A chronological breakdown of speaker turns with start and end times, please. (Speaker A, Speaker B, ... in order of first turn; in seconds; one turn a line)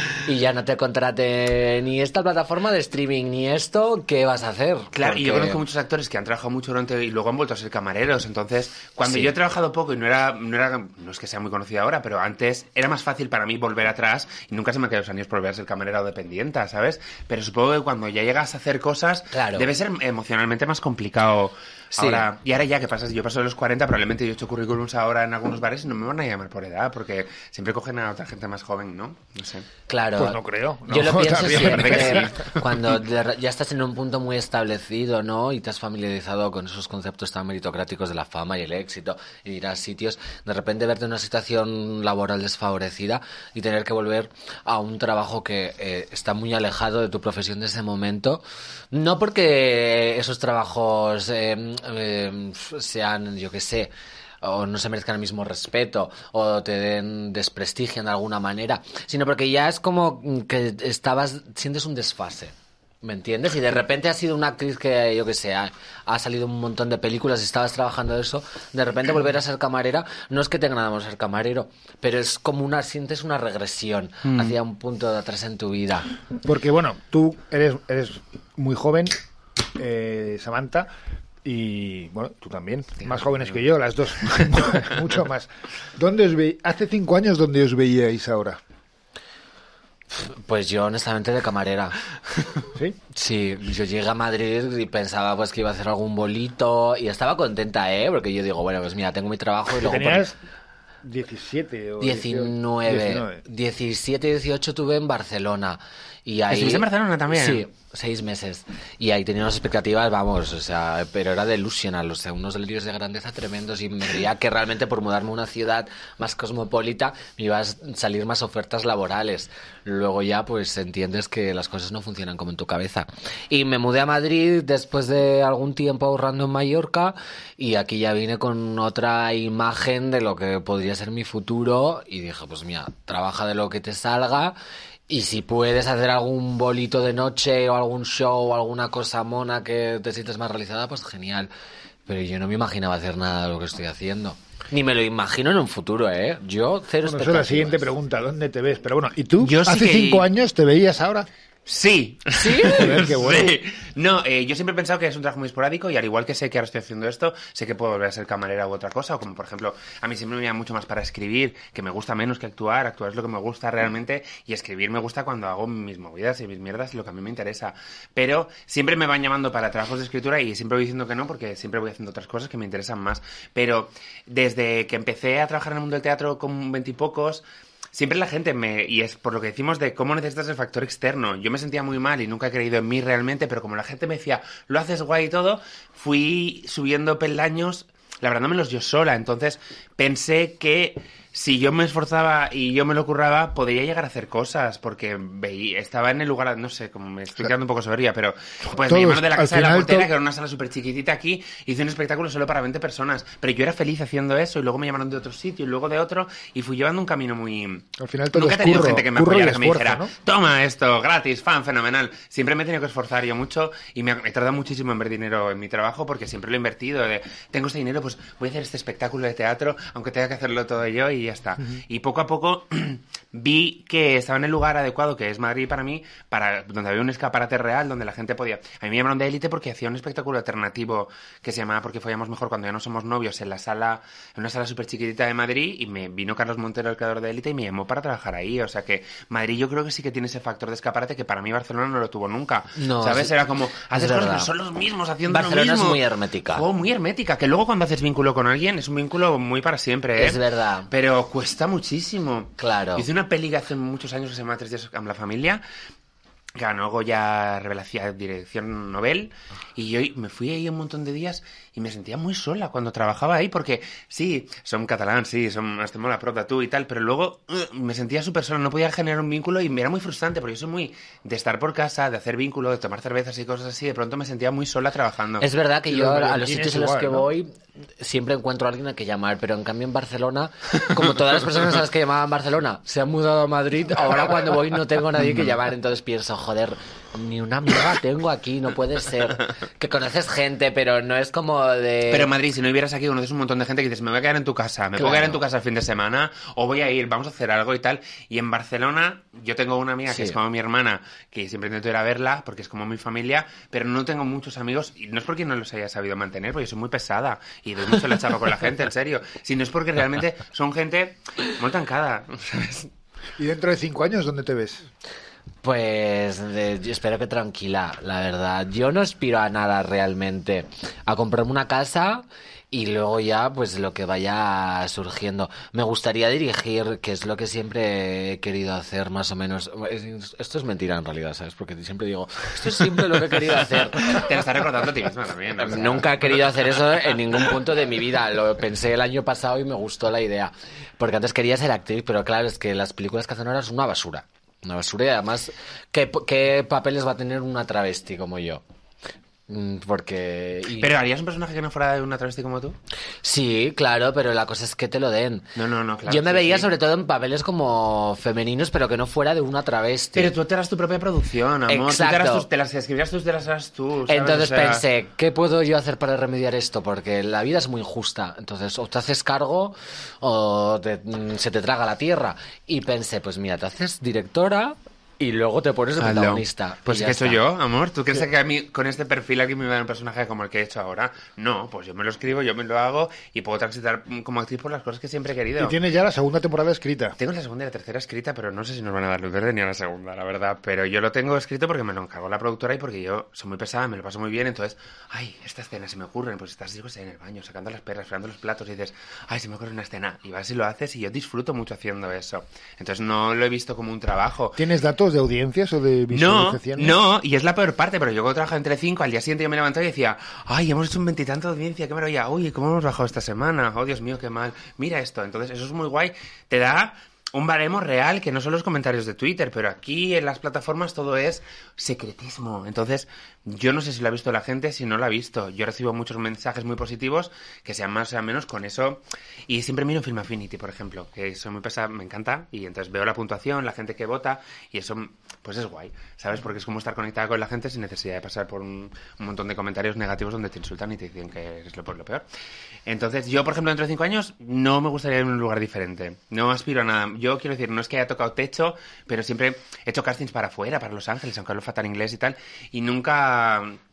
Speaker A: 0.2-5.6
Speaker B: 4.9-29.7
Speaker A: 9.0-9.3
Speaker A: 19.3-19.7
Speaker A: 21.9-22.2
Speaker A: 29.9-76.1
Speaker C: 30.2-32.3
Speaker B: 31.5-32.6
Speaker B: 74.2-74.5
Speaker C: 76.4-79.2
Speaker C: 79.8-80.9
Speaker C: 81.4-88.6
Speaker B: 83.0-83.5
Speaker A: 90.1-92.0
Speaker A: 93.1-100.2
Speaker C: 99.8-100.4
Speaker C: 101.0-103.4
Speaker A: 102.0-134.6
Speaker B: 106.5-107.6
Speaker A: 135.1-141.5
Speaker A: 142.1-147.9
Speaker C: 147.0-151.3
Speaker B: 149.4-150.3
Speaker B: 151.7-255.6
Speaker A: 152.3-153.0
Speaker C: 152.7-153.6
Speaker C: 198.8-200.1
Speaker C: 208.0-210.1
Speaker A: 242.8-243.3
Speaker A: 243.9-244.5
Speaker A: 245.3-246.6
Speaker A: 250.2-250.9
Speaker A: 252.6-253.0
Speaker B: 256.6-275.5
Speaker A: 275.4-292.3
Speaker C: 275.9-277.3
Speaker B: 292.1-312.9
Speaker A: 295.0-295.4
Speaker A: 300.1-300.4
Speaker C: 313.4-314.9
Speaker A: 315.6-334.2
Speaker B: 333.9-337.4
Speaker A: 335.6-348.6
Speaker A: 349.5-350.9
Speaker B: 350.8-352.8
Speaker A: 353.2-355.5
Speaker B: 355.5-356.7
Speaker A: 356.1-360.3
Speaker B: 360.1-364.8
Speaker A: 361.7-362.5
Speaker A: 364.1-377.4
Speaker B: 376.0-385.8
Speaker C: 385.6-387.2
Speaker B: 387.2-404.6
Speaker C: 404.6-407.0
Speaker B: 406.1-442.2
Speaker B: 442.9-453.8